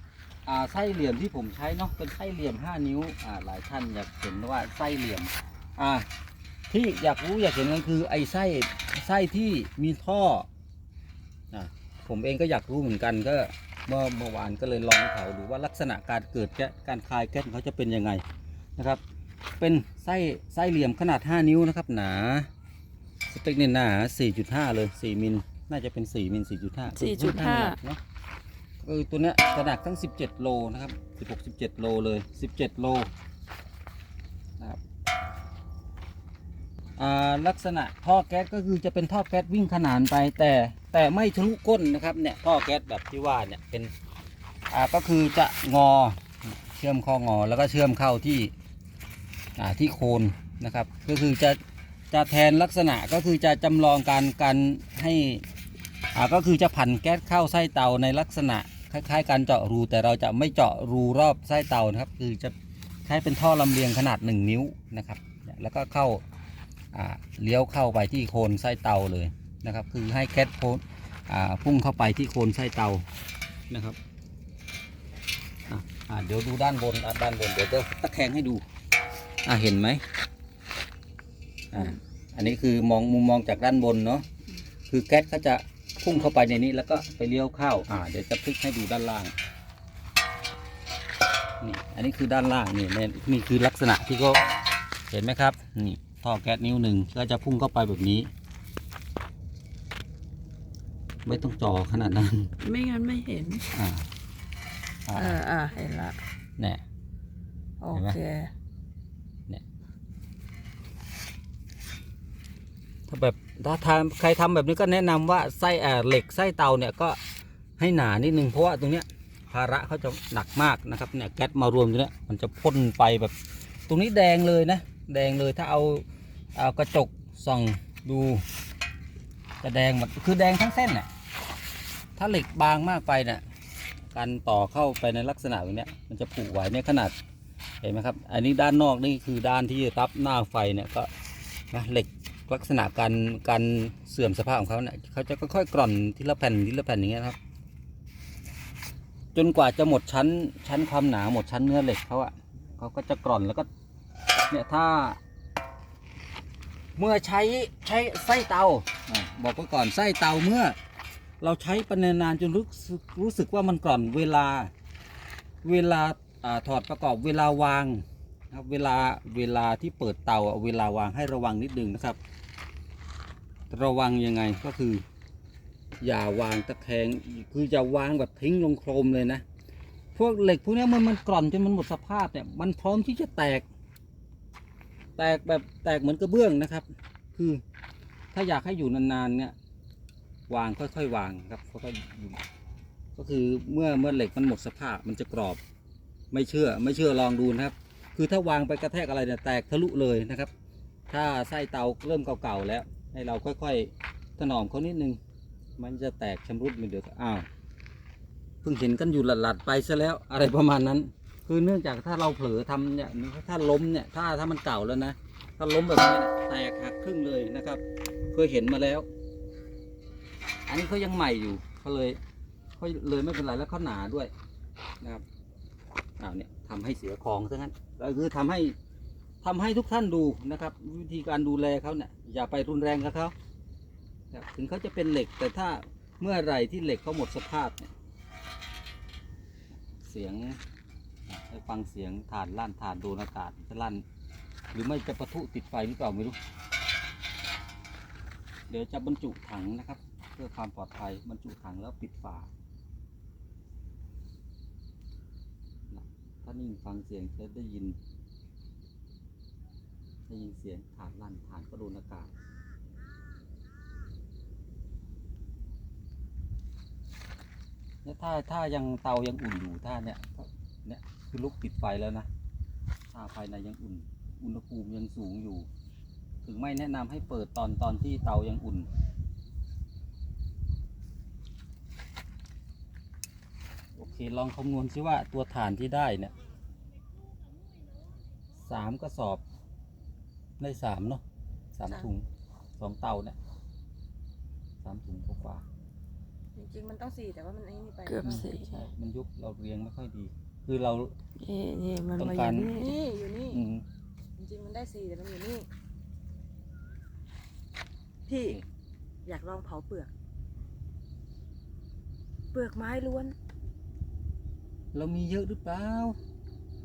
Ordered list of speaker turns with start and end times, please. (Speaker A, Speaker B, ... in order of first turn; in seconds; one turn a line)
Speaker A: 0.5-6.1
Speaker A: 6.7-10.5
Speaker A: 11.5-18.2
Speaker A: 18.8-19.0
Speaker A: 19.6-22.5
Speaker A: 23.3-28.0
Speaker B: 27.0-27.8
Speaker A: 28.8-33.1
Speaker A: 37.0-43.9
Speaker A: 44.7-48.5
Speaker A: 49.6-51.6
Speaker A: 52.1-55.5
Speaker A: 56.1-66.2
Speaker A: 66.9-73.1
Speaker A: 73.7-74.0
Speaker A: 75.7-78.6
Speaker A: 79.5-80.0
Speaker A: 81.7-84.3
Speaker A: 84.9-89.3
Speaker A: 91.6-94.5
Speaker A: 95.1-98.3
Speaker A: 101.2-102.5
Speaker B: 102.6-103.7
Speaker A: 103.7-104.1
Speaker A: 105.1-105.4
Speaker B: 105.1-106.2
Speaker A: 106.6-106.8
Speaker B: 107.8-108.5
Speaker A: 107.9-108.2
Speaker A: 113.1-117.2
Speaker A: 117.8-123.3
Speaker A: 123.9-128.4
Speaker A: 129.6-131.1
Speaker A: 132.2-133.4
Speaker A: 134.1-137.1
Speaker A: 137.8-141.1
Speaker A: 141.7-147.4
Speaker A: 149.3-153.7
Speaker A: 154.5-155.2
Speaker A: 157.0-160.8
Speaker A: 161.4-164.7
Speaker A: 165.6-172.2
Speaker A: 173.7-175.0
Speaker A: 176.0-179.4
Speaker A: 180.2-183.7
Speaker A: 185.2-187.6
Speaker A: 188.3-189.6
Speaker A: 190.5-192.4
Speaker A: 193.2-195.6
Speaker A: 196.3-200.5
Speaker A: 201.1-205.2
Speaker A: 205.8-207.5
Speaker A: 208.6-219.1
Speaker A: 220.7-222.2
Speaker A: 222.8-224.3
Speaker A: 226.2-228.8
Speaker A: 229.4-233.3
Speaker A: 234.3-237.9
Speaker A: 239.9-240.6
Speaker A: 241.3-244.0
Speaker A: 244.7-246.4
Speaker A: 248.7-252.5
Speaker A: 255.9-258.0
Speaker A: 260.3-262.3
Speaker A: 268.0-272.3
Speaker A: 273.1-275.7
Speaker A: 276.4-278.9
Speaker A: 284.0-286.3
Speaker A: 288.6-289.4
Speaker A: 290.6-291.2
Speaker A: 291.7-292.3
Speaker A: 292.8-293.4
Speaker A: 294.8-295.7
Speaker C: 296.6-298.6
Speaker B: 298.1-298.8
Speaker A: 298.3-301.1
Speaker B: 301.4-303.0
Speaker A: 302.2-302.7
Speaker C: 302.7-303.6
Speaker A: 303.5-303.8
Speaker C: 304.4-305.7
Speaker C: 308.3-308.6
Speaker C: 309.2-310.1
Speaker C: 312.5-313.4
Speaker A: 314.9-316.2